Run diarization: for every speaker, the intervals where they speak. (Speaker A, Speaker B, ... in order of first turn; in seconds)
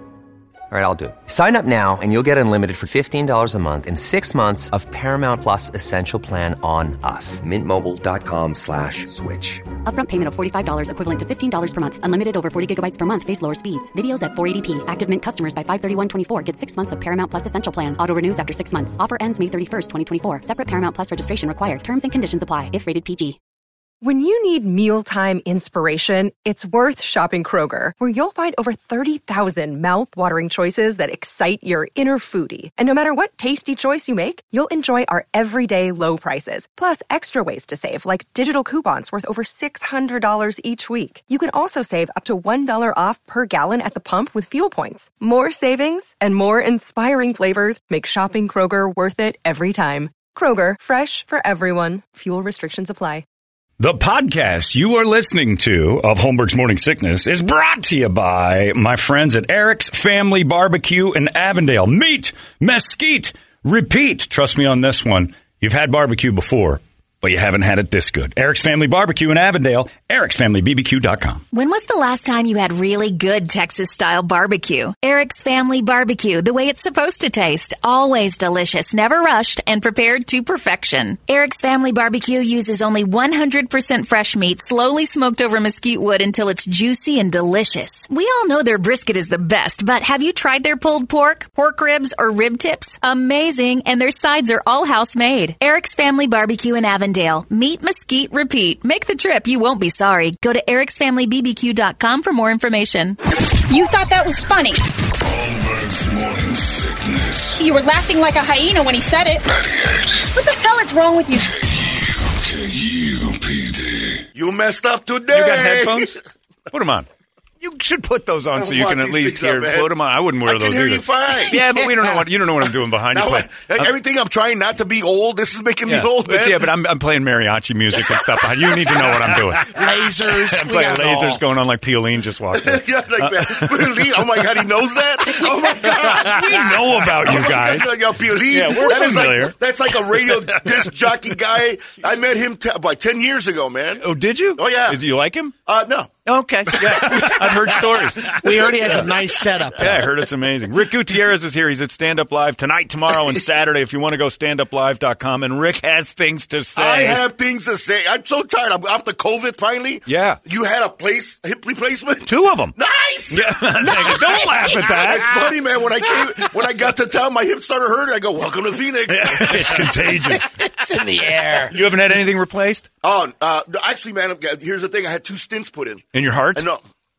Speaker A: 0.7-9.6
Speaker B: 9.8-23.4
Speaker C: 24.0-53.2
Speaker D: 53.8-71.4, 115.3-116.1, 116.7-117.0, 117.6-123.9, 125.9-134.3, 135.4-137.9, 138.5-139.6, 140.1-140.9, 144.0-145.5, 146.2-148.9, 149.8-157.2, 160.1-160.4, 162.3-162.8, 163.3-165.3, 169.1-170.6, 171.7-172.9, 176.1-176.7
Speaker E: 71.5-103.2
Speaker F: 103.7-104.9, 107.6-109.4, 110.3-111.5
Speaker G: 105.2-107.6, 109.5-110.3, 111.5-114.2
Speaker H: 114.3-116.2, 118.5-119.9, 120.4-121.6, 123.1-126.7, 128.1-129.4, 132.5-145.0, 145.7-146.1, 146.7-148.8, 153.1-153.4, 156.8-170.1, 173.0-176.8
Speaker I: 129.6-131.4, 148.2-150.1, 164.1-164.8, 170.1-171.8